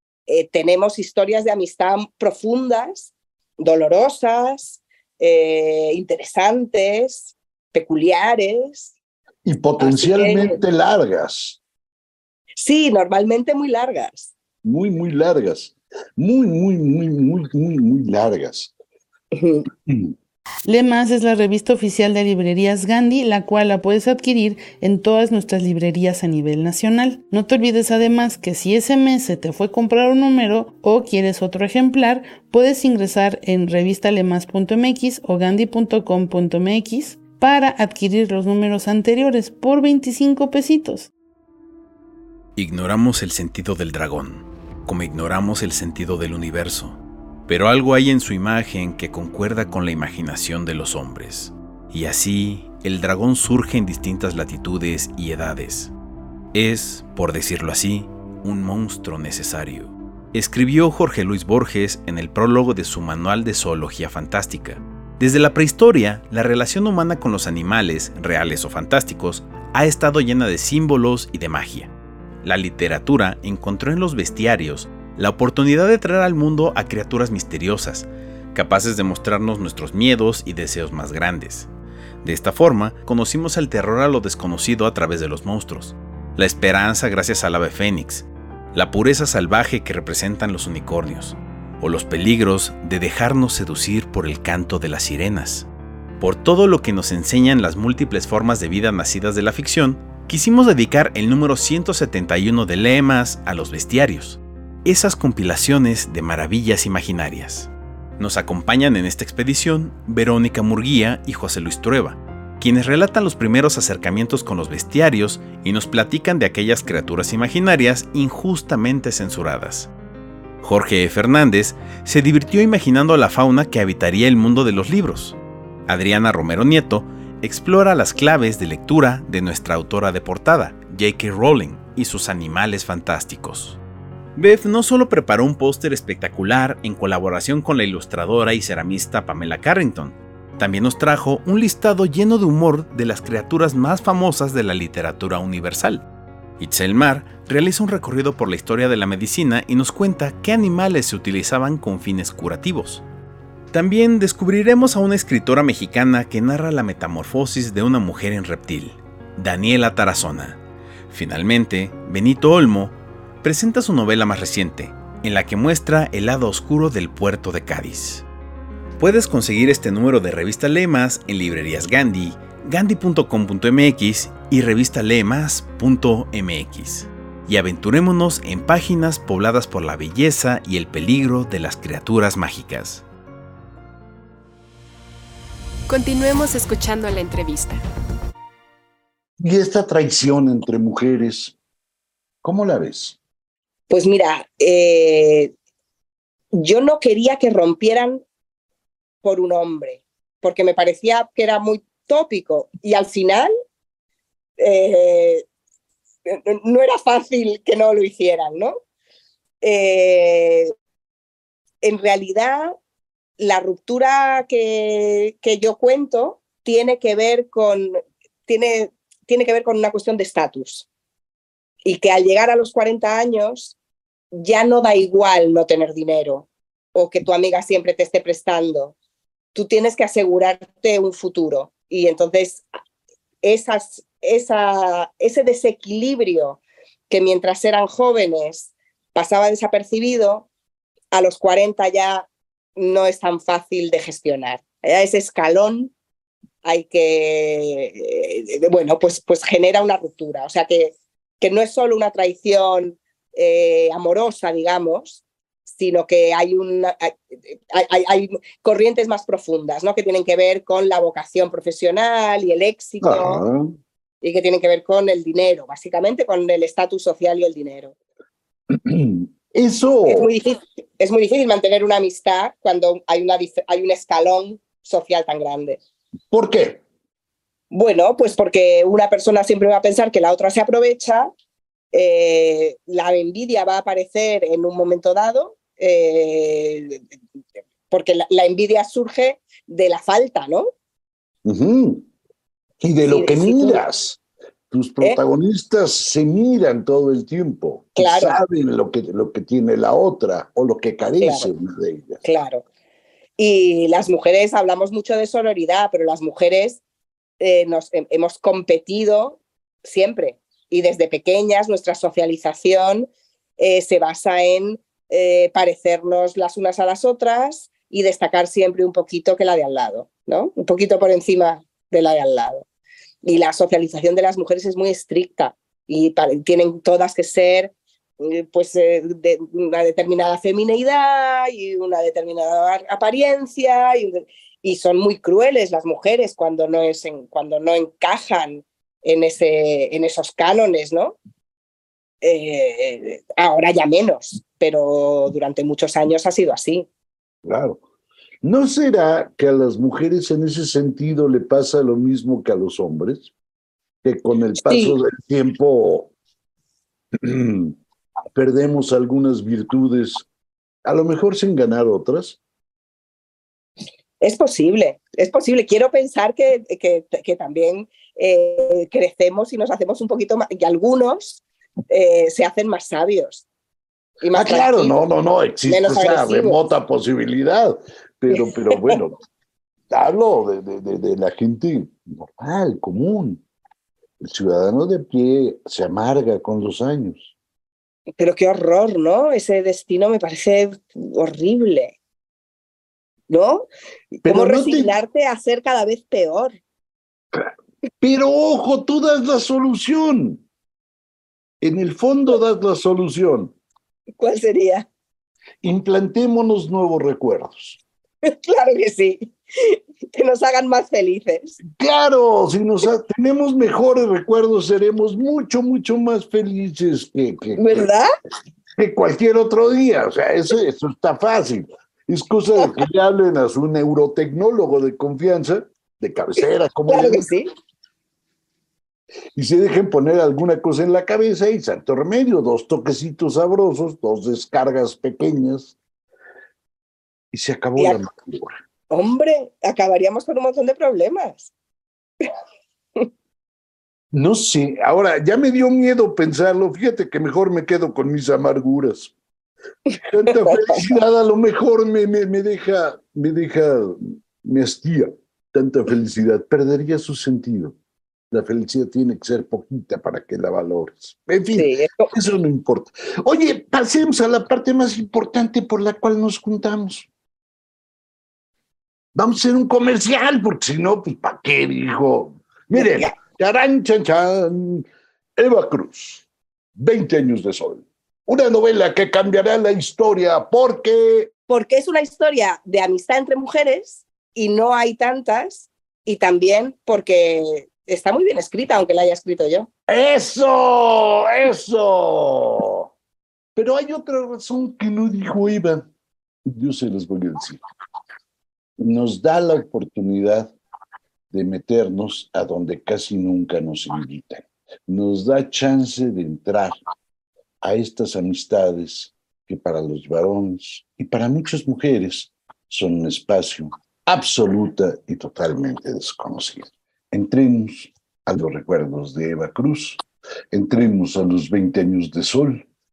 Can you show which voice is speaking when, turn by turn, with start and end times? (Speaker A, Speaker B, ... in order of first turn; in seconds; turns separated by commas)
Speaker A: 0.3-8.9, Speaker B: 9.4-11.6, Speaker A: 9.8-10.6, Speaker A: 12.6-14.3, Speaker B: 14.6-18.7, Speaker A: 19.3-19.6, Speaker B: 19.9-20.1, Speaker C: 20.6-41.1, Speaker D: 42.5-55.9, Speaker D: 56.5-71.9, Speaker D: 72.4-81.7, Speaker D: 82.2-95.7, Speaker D: 96.2-119.9, Speaker D: 120.6-133.8, Speaker D: 134.3-146.0, Speaker D: 146.6-153.0, Speaker D: 153.7-160.6, Speaker D: 161.1-168.2, Speaker D: 169.0-183.0, Speaker E: 185.9-187.8, Speaker B: 189.4-191.5, Speaker B: 192.4-193.2, Speaker A: 193.9-195.5, Speaker A: 196.5-198.2, Speaker A: 199.2-203.5, Speaker A: 204.6-205.4, Speaker A: 206.2-208.8, Speaker A: 209.6-210.7, Speaker A: 211.8-212.8, Speaker A: 213.4-220.8, Speaker A: 221.8-223.7, Speaker A: 224.3-228.9, Speaker A: 229.5-232.6, Speaker A: 233.4-240.5, Speaker A: 241.1-242.2, Speaker A: 242.8-245.9, Speaker A: 246.6-263.4, Speaker B: 263.0-263.7, Speaker A: 264.2-267.9, Speaker B: 268.7-270.3, Speaker A: 270.1-275.8, Speaker B: 276.3-276.8, Speaker A: 277.7-281.3, Speaker A: 281.9-287.0, Speaker A: 287.9-290.7, Speaker B: 291.4-292.1, Speaker B: 292.8-294.2, Speaker A: 293.0-293.8, Speaker B: 294.7-302.2, Speaker A: 298.0-298.4, Speaker A: 301.2-301.5, Speaker A: 302.2-302.6, Speaker A: 303.4-306.8, Speaker A: 307.4-322.6, Speaker A: 323.2-341.1, Speaker A: 342.2-346.9, Speaker B: 347.4-347.8, Speaker B: 348.4-353.3, Speaker B: 354.0-356.1, Speaker A: 354.6-354.9, Speaker B: 357.2-357.8, Speaker B: 358.3-360.2, Speaker B: 360.8-362.4, Speaker A: 364.2-373.4, Speaker A: 374.2-374.9, Speaker B: 374.3-379.2, Speaker A: 375.7-376.6, Speaker A: 378.3-378.9, Speaker B: 379.9-383.4, Speaker B: 384.2-387.3, Speaker A: 388.2-391.9, Speaker A: 393.3-396.6, Speaker B: 394.2-394.9, Speaker B: 398.0-400.4, Speaker B: 401.6-403.5, Speaker A: 404.2-404.9, Speaker B: 405.6-407.8, Speaker A: 408.2-411.6, Speaker B: 411.6-417.9, Speaker A: 417.6-418.1, Speaker B: 418.8-427.3, Speaker A: 426.9-427.5, Speaker B: 429.3-435.7, Speaker B: 437.3-438.6, Speaker A: 438.9-441.5, Speaker B: 444.1-449.1, Speaker A: 449.9-450.8, Speaker B: 450.1-457.8, Speaker B: 458.3-467.1, Speaker A: 461.6-462.1, Speaker B: 469.1-476.2, Speaker A: 472.8-473.1, Speaker B: 476.8-481.3, Speaker A: 481.5-489.7, Speaker B: 489.9-492.9, Speaker B: 493.5-495.9, Speaker B: 496.4-497.6, Speaker B: 498.8-500.5, Speaker B: 501.3-506.8, Speaker B: 507.6-522.6